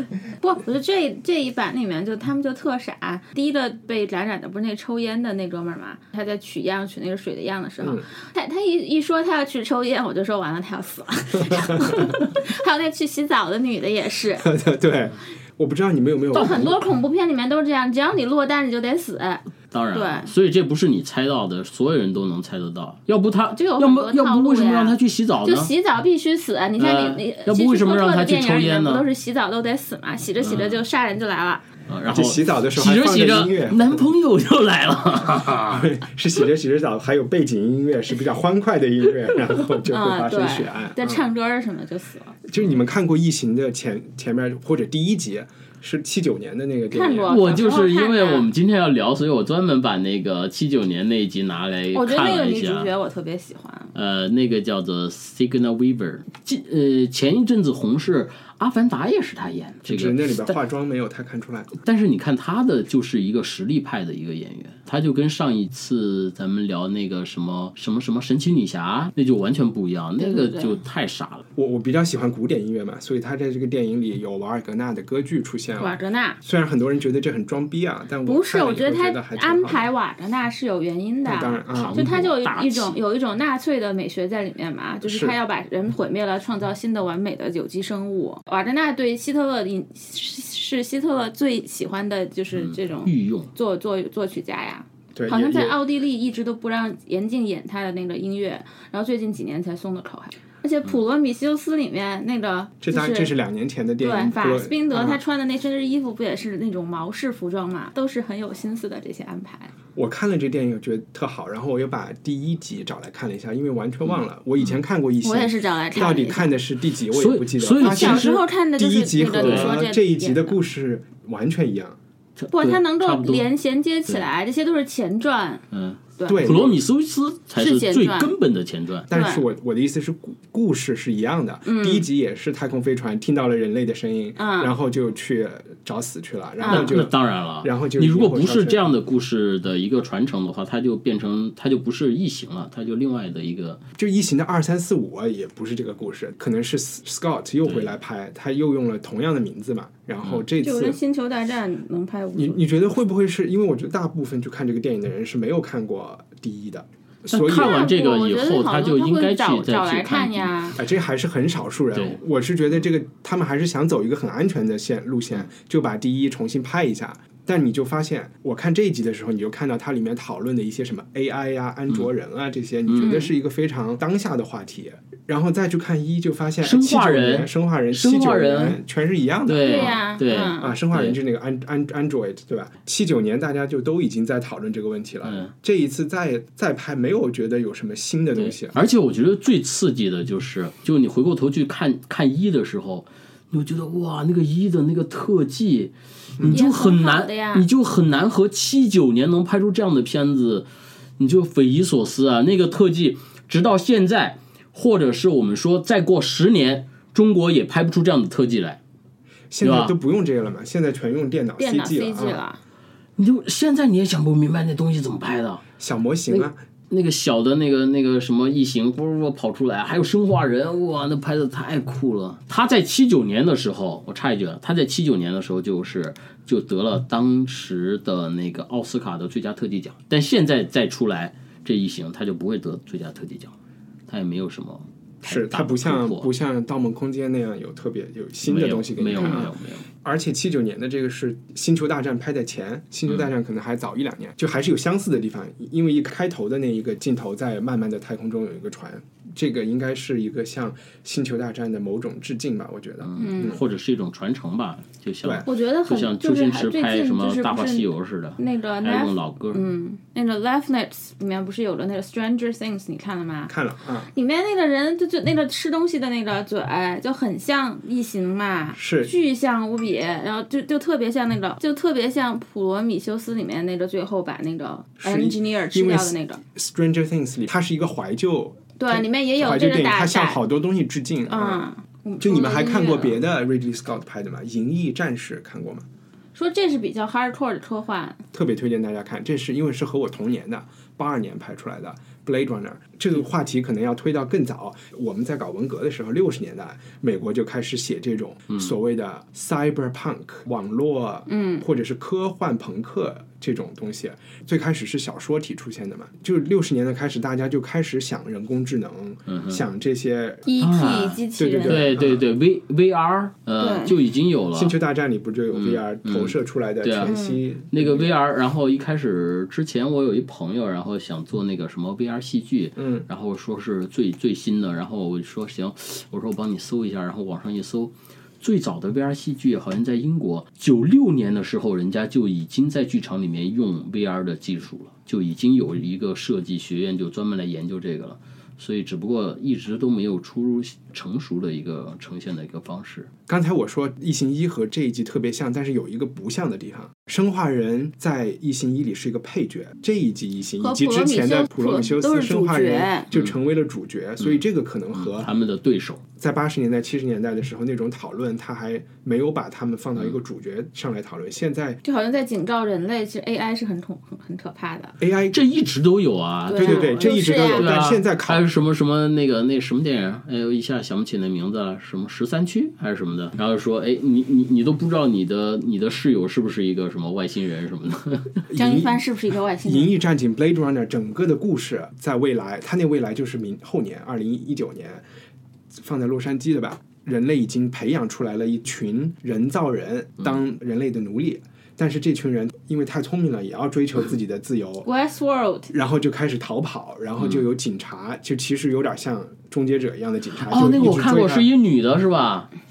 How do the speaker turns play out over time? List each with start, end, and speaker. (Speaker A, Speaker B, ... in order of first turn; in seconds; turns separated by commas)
Speaker A: 0.4-14.5, Speaker B: 7.8-8.1, Speaker B: 14.4-16.8, Speaker A: 16.3-20.3, Speaker C: 16.4-16.7, Speaker C: 19.7-25.7, Speaker A: 23.6-31.6, Speaker C: 26.8-29.1, Speaker C: 30.4-30.8, Speaker C: 31.9-36.0, Speaker B: 32.1-34.0, Speaker B: 35.7-41.2, Speaker A: 39.9-42.4, Speaker B: 42.5-47.3, Speaker A: 46.9-48.5, Speaker C: 47.3-52.9, Speaker A: 51.9-53.9, Speaker C: 54.0-60.6, Speaker B: 59.9-61.7, Speaker C: 61.8-71.5, Speaker A: 70.2-70.8, Speaker B: 71.5-79.9, Speaker A: 75.8-76.4, Speaker A: 78.3-103.3, Speaker B: 81.2-82.1, Speaker C: 81.7-83.0, Speaker B: 85.0-85.4, Speaker C: 92.5-93.5, Speaker B: 95.1-95.8, Speaker B: 102.8-105.2, Speaker A: 104.0-109.7, Speaker B: 110.0-122.0, Speaker C: 114.0-114.8, Speaker A: 115.2-116.5, Speaker C: 117.1-118.4, Speaker A: 117.8-120.6, Speaker C: 119.3-119.7, Speaker C: 122.4-123.5, Speaker A: 122.5-125.6, Speaker C: 125.7-129.1, Speaker A: 126.2-126.5, Speaker B: 126.3-126.8, Speaker A: 127.6-128.3, Speaker B: 129.1-138.9, Speaker A: 129.1-129.4, Speaker A: 131.7-132.1, Speaker A: 134.4-134.7, Speaker A: 136.6-136.9, Speaker C: 136.7-143.8, Speaker B: 144.0-151.0, Speaker C: 147.6-148.0, Speaker A: 150.6-152.6, Speaker B: 152.4-157.8, Speaker C: 157.3-160.6, Speaker A: 157.5-160.8, Speaker B: 160.8-180.0, Speaker C: 172.9-173.2, Speaker A: 173.0-173.3, Speaker C: 176.6-178.8, Speaker C: 179.5-181.2, Speaker A: 179.6-180.7, Speaker B: 180.5-188.8, Speaker C: 185.2-185.5, Speaker C: 188.4-200.7, Speaker A: 196.5-197.7, Speaker C: 201.2-208.8, Speaker B: 209.5-212.4, Speaker C: 209.6-209.9, Speaker A: 211.6-212.6, Speaker C: 213.2-215.6, Speaker B: 215.8-216.6, Speaker C: 216.3-233.6, Speaker C: 234.1-236.3, Speaker B: 235.2-253.6, Speaker C: 238.4-239.9, Speaker C: 253.0-259.6, Speaker A: 253.2-253.6, Speaker A: 255.4-263.6, Speaker B: 263.5-264.1, Speaker A: 264.1-276.4, Speaker B: 268.8-269.1, Speaker B: 275.0-281.7, Speaker A: 278.8-280.4, Speaker A: 281.3-283.2, Speaker B: 282.2-285.9, Speaker A: 286.4-288.2, Speaker B: 288.3-310.5, Speaker A: 301.3-301.6, Speaker C: 309.3-309.6, Speaker A: 310.5-311.9, Speaker C: 310.6-314.8, Speaker B: 311.4-312.2, Speaker A: 313.6-314.0, Speaker B: 314.5-318.1, Speaker C: 315.5-317.1, Speaker A: 317.0-317.4, Speaker C: 317.7-343.1, Speaker B: 322.8-323.1, Speaker B: 343.3-355.3, Speaker A: 350.6-353.1, Speaker C: 354.9-356.0, Speaker B: 356.2-361.8, Speaker A: 361.8-365.0, Speaker B: 365.0-365.4, Speaker C: 365.3-378.4, Speaker A: 366.5-367.8, Speaker B: 366.6-368.5, Speaker B: 378.5-379.0, Speaker A: 378.6-380.0, Speaker B: 379.6-385.0, Speaker B: 385.7-394.9, Speaker A: 394.8-395.7, Speaker B: 395.7-401.5, Speaker C: 397.2-397.4, Speaker C: 400.4-402.5